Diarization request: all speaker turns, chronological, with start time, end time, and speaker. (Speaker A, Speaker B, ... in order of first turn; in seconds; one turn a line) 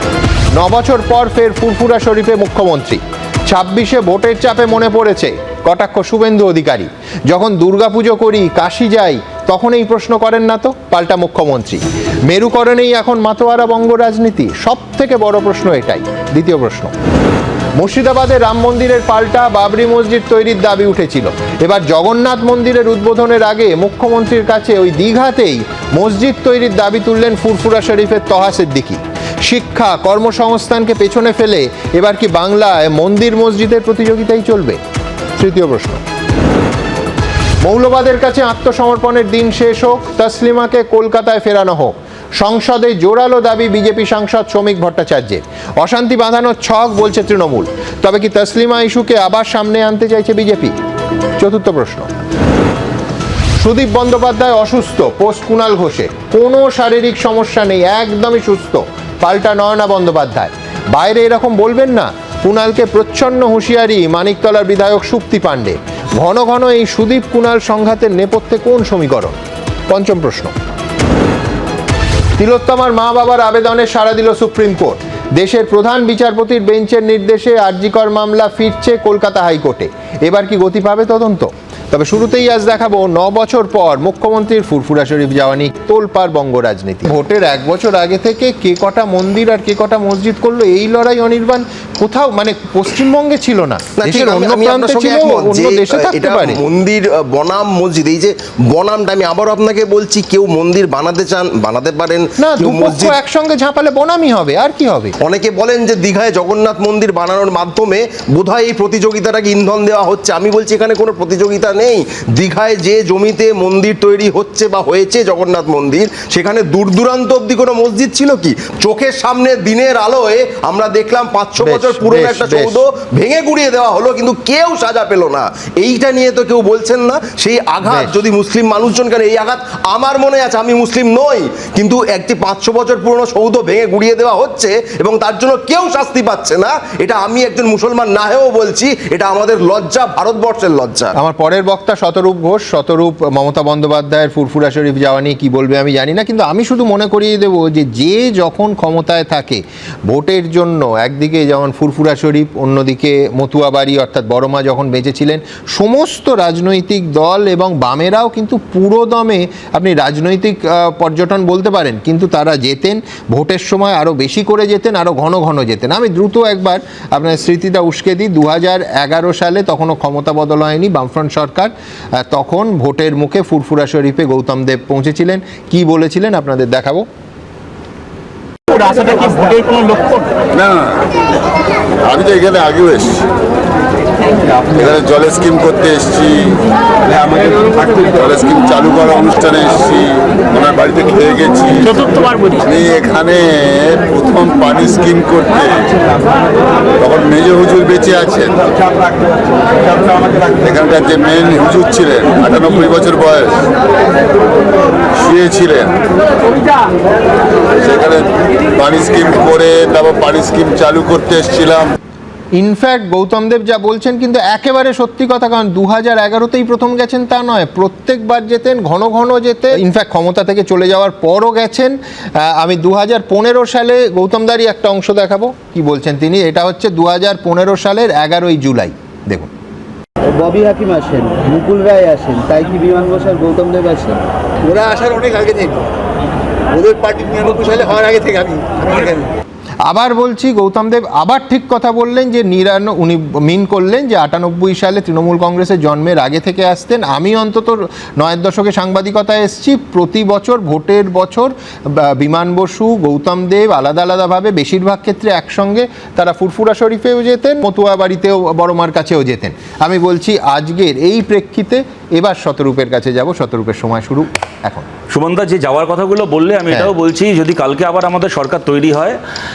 Speaker A: 0.5-16.9
Speaker A: 17.8-34.8
Speaker A: 35.4-36.0
Speaker A: 37.6-50.8
Speaker A: 51.4-52.1
Speaker A: 53.6-69.4
Speaker A: 69.9-70.5
Speaker A: 72.4-96.6
Speaker B: 94.0-103.2
Speaker A: 102.4-105.2
Speaker B: 105.2-141.1
Speaker A: 121.6-122.8
Speaker A: 127.8-128.2
Speaker A: 141.2-177.1
Speaker C: 178.7-180.3
Speaker D: 180.5-181.1
Speaker D: 182.0-183.2
Speaker D: 184.6-192.0
Speaker C: 191.9-192.6
Speaker D: 192.6-196.1
Speaker D: 197.0-199.0
Speaker D: 199.8-203.6
Speaker D: 205.2-206.0
Speaker D: 207.8-211.9
Speaker A: 212.5-229.5
Speaker E: 230.3-234.2
Speaker C: 234.6-235.8
Speaker C: 236.7-239.3
Speaker A: 239.8-264.9
Speaker F: 265.1-269.2